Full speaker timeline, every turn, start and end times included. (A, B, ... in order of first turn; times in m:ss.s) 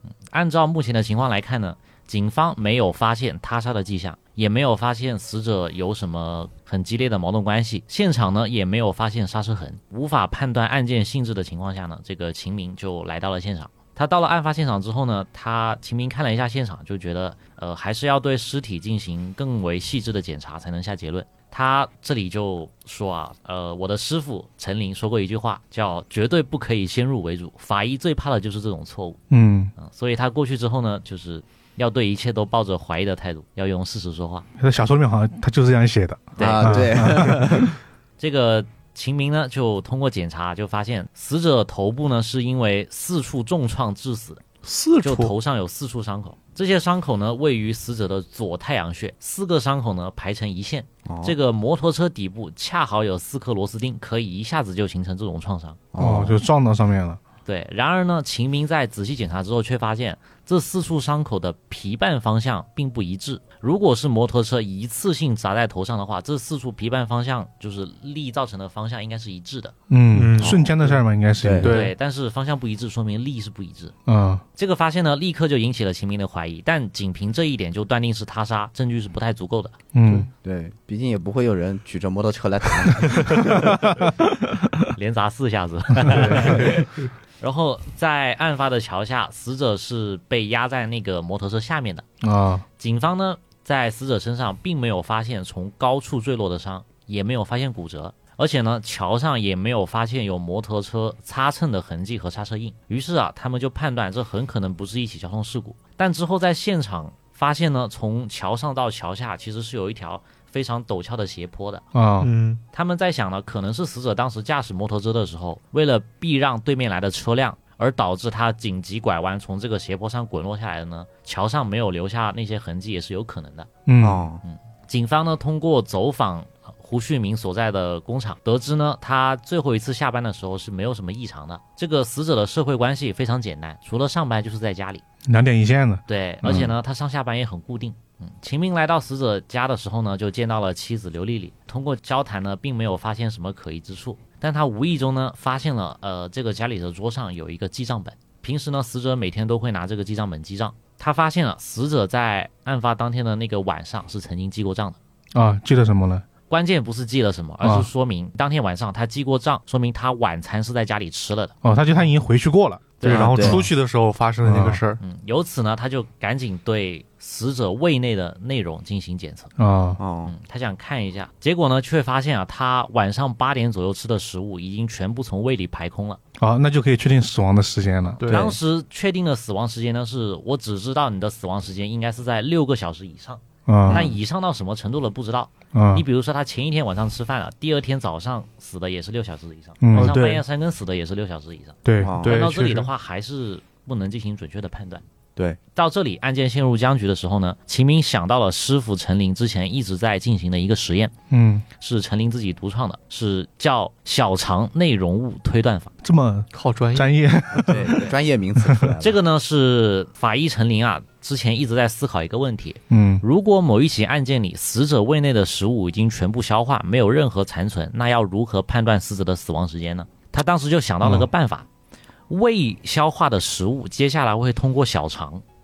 0:00.3-0:29.2 A
0:29.3-0:29.7 B
0:29.8-0:34.4 A
0:34.6-0:37.7 B
0:36.4-0:37.3 A
0:36.4-0:37.7 C
0:38.2-0:44.4 A
0:44.6-0:45.3 D
0:45.0-0:55.8 A
0:51.1-0:51.3 C
0:55.9-0:56.4 C
0:56.0-0:57.2 B
0:57.4-1:09.7 A
1:09.9-1:11.8 B
1:10.1-1:10.9 D
1:11.4-1:11.7 C
1:11.6-1:11.9 D
1:11.6-1:13.9 A
1:14.0-1:14.4 B
1:14.6-1:19.8 A
1:19.9-1:20.3 B
1:20.4-1:23.9 C
1:23.5-1:23.9 B
1:24.9-1:32.0 A
1:26.1-1:26.8 B
1:26.4-1:26.8 D
1:32.2-1:32.6 B
1:32.8-1:51.8 A
1:51.9-1:52.3 B
1:52.2-1:52.6 D
1:52.7-2:03.7 A
2:03.8-2:04.2 B
2:04.0-2:04.4 C
2:04.4-2:15.0 A
2:15.2-2:16.7 B
2:16.1-2:35.0 A
2:35.3-2:36.2 B
2:36.5-2:41.5 A
2:37.6-2:37.9 B
2:41.6-2:43.6 B
2:43.0-2:43.5 A
2:43.0-2:45.0 D
2:43.0-2:43.6 C
2:44.4-2:44.8 B
2:45.0-2:49.5 A
2:49.6-2:50.0 B
2:50.0-2:50.3 C
2:50.2-2:56.2 A
2:56.4-2:58.4 B
2:58.2-2:58.5 D
2:58.2-3:15.0 A
3:03.7-3:04.1 B
3:03.9-3:04.2 C
3:05.7-3:06.0 B
3:09.8-3:10.2 B
3:09.9-3:10.4 D
3:11.8-3:12.2 B
3:12.0-3:12.4 C
3:12.2-3:12.9 D
3:15.7-3:21.1 A
3:21.3-3:21.6 B
3:21.8-3:25.9 A
3:26.0-3:28.1 B
3:26.5-3:27.1 D
3:27.6-3:29.2 C
3:29.0-3:41.6 A
3:32.9-3:33.2 B
3:41.0-3:41.3 B
3:42.3-3:45.4 A